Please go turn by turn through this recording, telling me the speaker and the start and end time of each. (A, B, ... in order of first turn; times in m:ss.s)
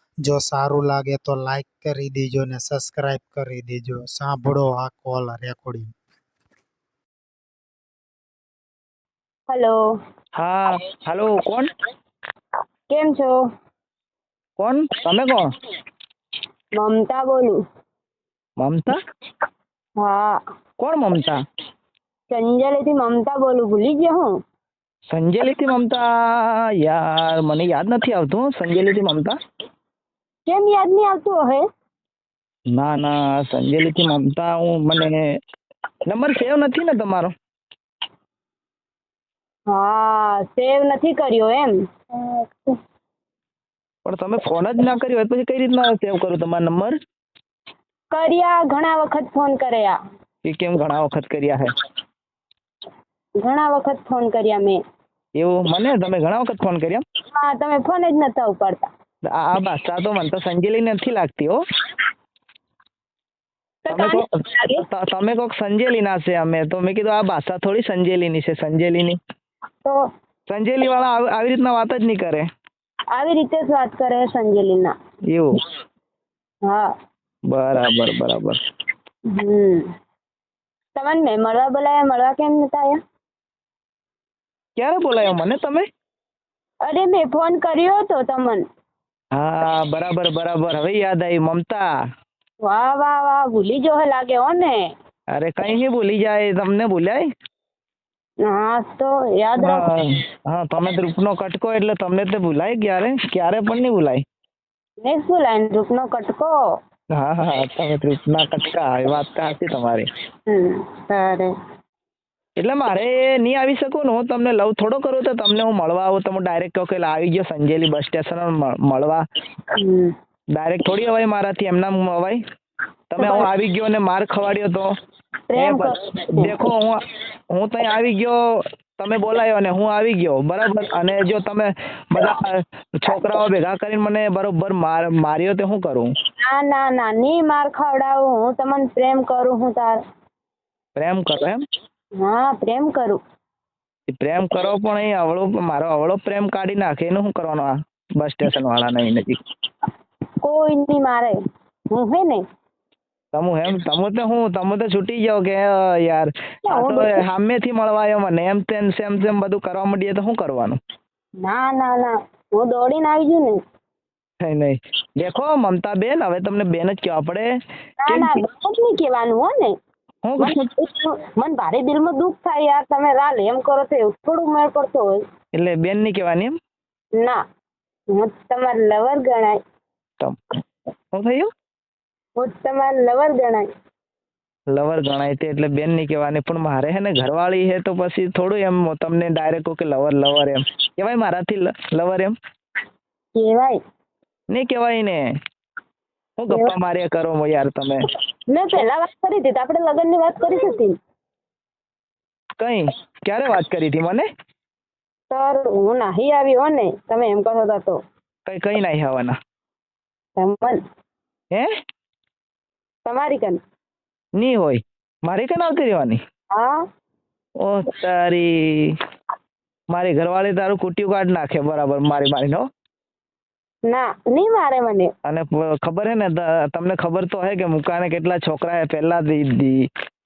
0:00.2-0:05.9 A
0:09.5-0:09.8 B
0:10.4-0:11.7 C
0:12.9-0:13.4 B
0:14.6-0:15.5 C
0:16.8-0:17.6 B
0:18.6-0:19.0 C
0:20.0-0:20.4 B
0:20.8-0:21.4 C
0:22.3-0:24.3 B
0:25.1-0:29.4 C
0:30.4-0:31.6 B
0:32.7-0:35.3 C
0:36.1-0:37.3 C
0:39.7-0:42.7 B
0:44.0-0:47.0 C
0:48.1-0:50.0 B
0:50.4-0:51.7 C
0:53.4-0:54.8 B
0:55.4-0:57.0 C
0:57.3-0:58.9 B
0:59.2-1:01.6 C
1:03.8-1:04.8 B
1:03.9-1:04.2 C
1:04.8-1:09.2 C
1:10.5-1:12.5 C
1:13.1-1:14.9 B
1:15.3-1:15.6 C
1:17.5-1:18.6 C
1:19.3-1:19.9 B
1:21.0-1:23.0 B
1:24.8-1:25.9 C
1:26.8-1:28.6 B
1:29.3-1:31.9 C
1:32.6-1:34.9 B
1:35.3-1:37.3 C
1:38.4-1:39.8 B
1:39.6-1:44.2 C
1:45.0-1:46.6 B
1:47.1-1:50.1 C
1:50.5-1:51.5 B
1:52.6-1:59.2 C
1:59.8-2:00.1 B
2:00.6-2:02.4 C
2:03.1-2:04.9 C
2:03.2-2:03.5 B
2:05.5-2:06.6 B
2:05.6-2:07.0 C
2:07.5-2:08.4 C
2:09.0-2:16.1 C
2:16.4-2:20.0 B
2:21.0-2:21.6 C
2:22.2-2:23.2 B
2:24.1-2:29.4 C
2:30.4-2:31.4 B
2:31.9-2:32.4 B
2:33.3-2:40.8 C
2:36.6-2:37.2 B
2:41.4-2:43.6 B
2:44.4-2:47.5 C
2:48.0-2:49.8 B
2:50.2-2:50.7 C
2:50.4-2:55.2 B
2:55.5-2:56.6 C
2:58.1-2:59.6 B
3:00.2-3:00.6 C
3:01.1-3:01.5 C
3:02.4-3:03.7 B
3:04.7-3:12.3 C
3:13.4-3:13.8 B
3:14.5-3:15.2 C
3:16.4-3:18.1 C
3:18.5-3:21.0 B
3:22.6-3:24.3 C
3:25.3-3:28.0 B
3:28.4-3:29.4 C
3:30.4-3:30.8 B
3:33.0-3:33.6 B
3:34.4-3:36.2 C
3:36.5-3:36.8 B
3:37.6-3:39.0 C
3:39.9-3:42.7 C
3:43.9-3:45.1 B
3:45.2-3:49.9 C